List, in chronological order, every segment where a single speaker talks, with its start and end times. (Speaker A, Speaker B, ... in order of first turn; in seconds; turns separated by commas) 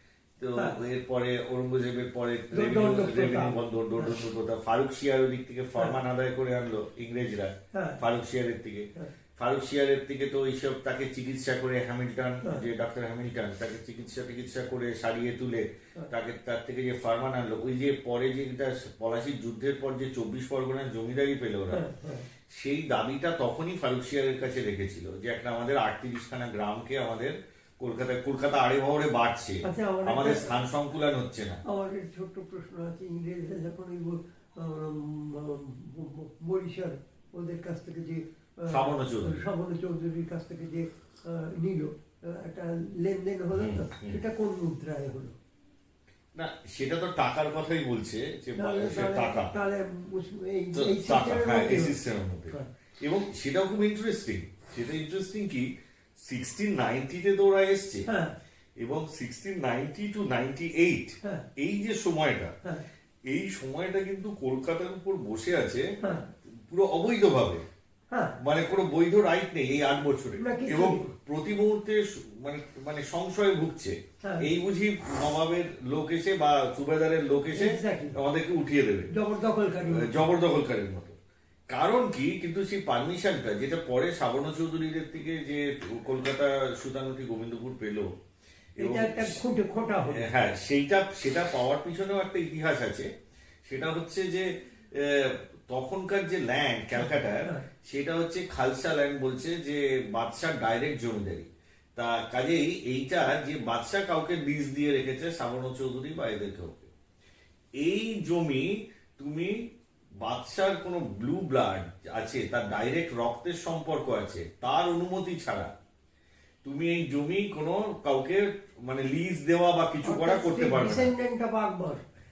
Speaker A: 0.4-21.9, Speaker B: 2.5-4.2, Speaker B: 7.7-8.0, Speaker B: 21.7-22.2, Speaker A: 22.5-31.6, Speaker B: 29.6-30.5, Speaker B: 31.6-45.3, Speaker A: 38.7-39.5, Speaker A: 43.5-44.2, Speaker A: 46.3-49.5, Speaker B: 48.6-52.0, Speaker A: 50.7-58.1, Speaker B: 58.1-58.3, Speaker A: 58.8-62.5, Speaker A: 63.2-65.9, Speaker A: 66.5-67.7, Speaker B: 68.1-68.4, Speaker A: 68.4-79.1, Speaker B: 70.4-71.1, Speaker B: 74.2-74.5, Speaker B: 77.5-78.2, Speaker B: 79.1-80.2, Speaker A: 79.8-81.2, Speaker A: 81.7-88.1, Speaker A: 88.8-89.4, Speaker B: 88.8-90.3, Speaker A: 90.1-93.1, Speaker A: 93.6-106.9, Speaker A: 107.8-109.7, Speaker A: 110.2-115.7, Speaker A: 116.6-121.1, Speaker B: 120.0-122.0